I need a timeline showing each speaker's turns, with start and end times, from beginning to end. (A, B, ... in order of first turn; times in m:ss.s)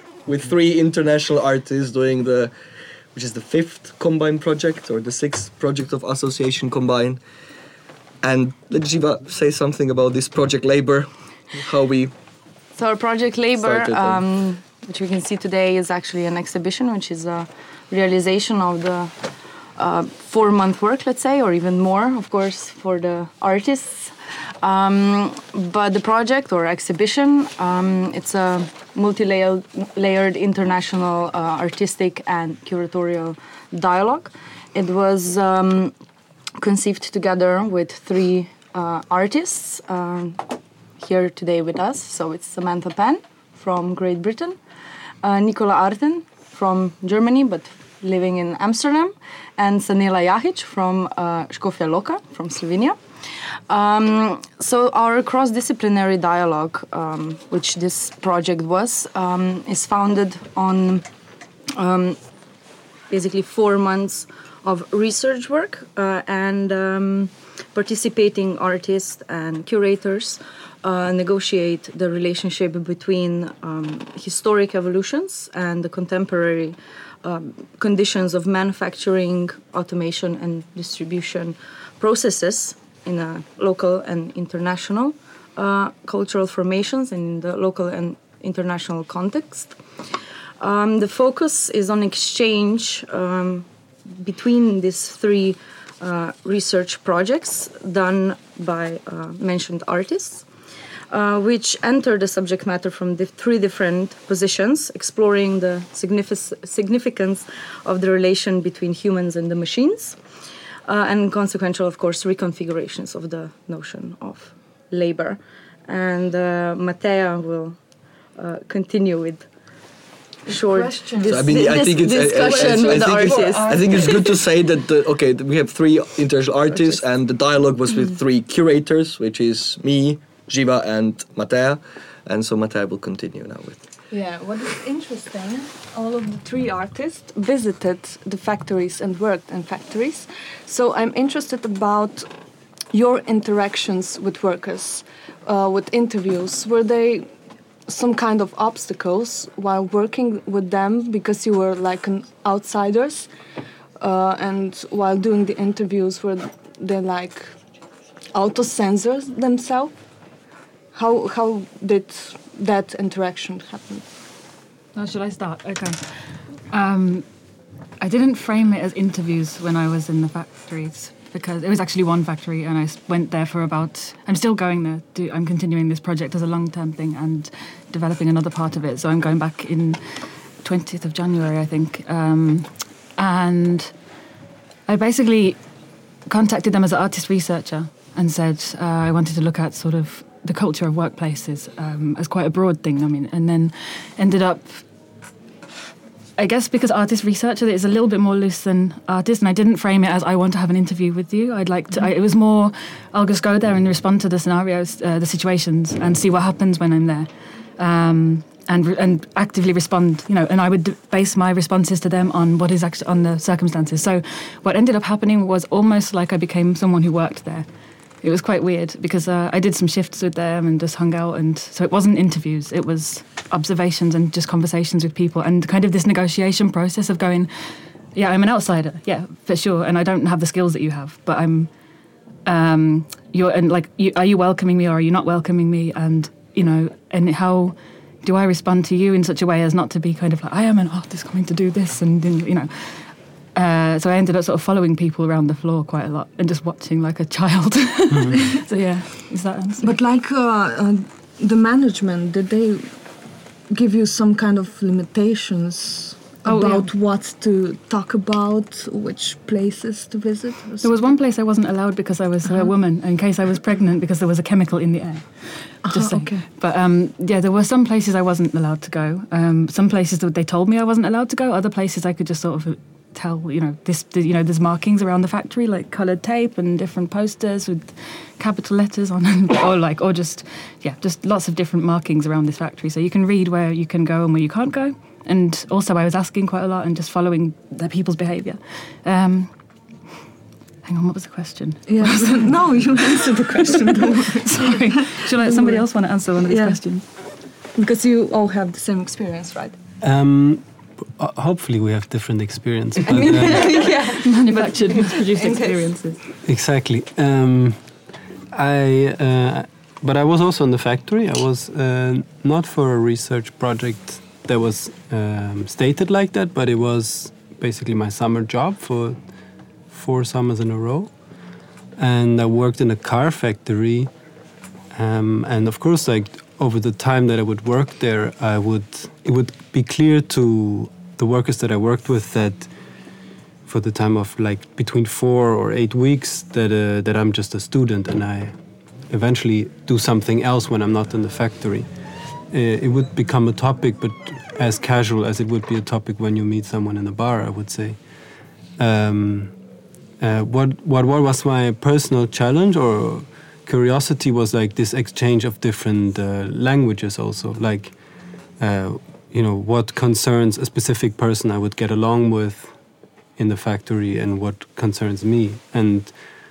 0:00.3-0:02.5 A
0:03.1-0:07.2 A
0:08.2-0:12.1 A
0:12.8-0:19.2 B
0:13.6-0:14.2 A
0:19.8-0:36.0 B
0:36.6-0:44.6 B
0:45.2-1:01.1 B
1:01.7-1:02.2 B
1:03.1-1:29.8 B
1:30.6-1:40.5 B
1:41.1-1:50.2 B
1:50.9-1:57.8 B
1:58.4-1:59.5 B
2:00.5-2:04.4 B
2:00.5-2:04.2 C
2:01.2-2:13.9 A
2:14.1-2:22.3 C
2:22.9-2:27.3 C
2:27.9-2:33.3 C
2:34.0-2:37.6 C
2:38.3-2:40.0 C
2:40.9-2:44.1 C
2:45.0-2:47.3 D
2:48.0-3:04.0 D
3:04.9-3:05.6 D
3:06.3-3:14.9 D
3:16.4-3:37.7 D
3:38.2-3:51.7 D
3:52.4-4:09.9 D
4:08.1-4:08.4 E
4:09.8-4:21.1 C
4:16.4-4:16.9 D
4:20.8-4:49.6 D
4:25.8-4:26.5 C
4:50.8-4:52.9 D
4:51.9-4:57.1 C
4:53.9-4:57.0 D
4:57.8-4:59.8 C
5:00.0-5:03.8 E
5:03.1-5:05.0 C
5:03.6-5:06.2 D
5:03.6-5:04.1 B
5:06.4-5:08.0 E
5:08.5-5:19.3 E
5:19.9-5:21.1 E
5:22.0-5:24.1 E
5:24.9-5:32.7 E
5:33.7-5:38.6 E
5:39.1-5:41.9 E
5:42.5-5:48.0 E
5:48.8-5:49.6 E
5:50.2-5:58.0 E
5:58.6-6:02.8 E
6:03.4-6:06.2 E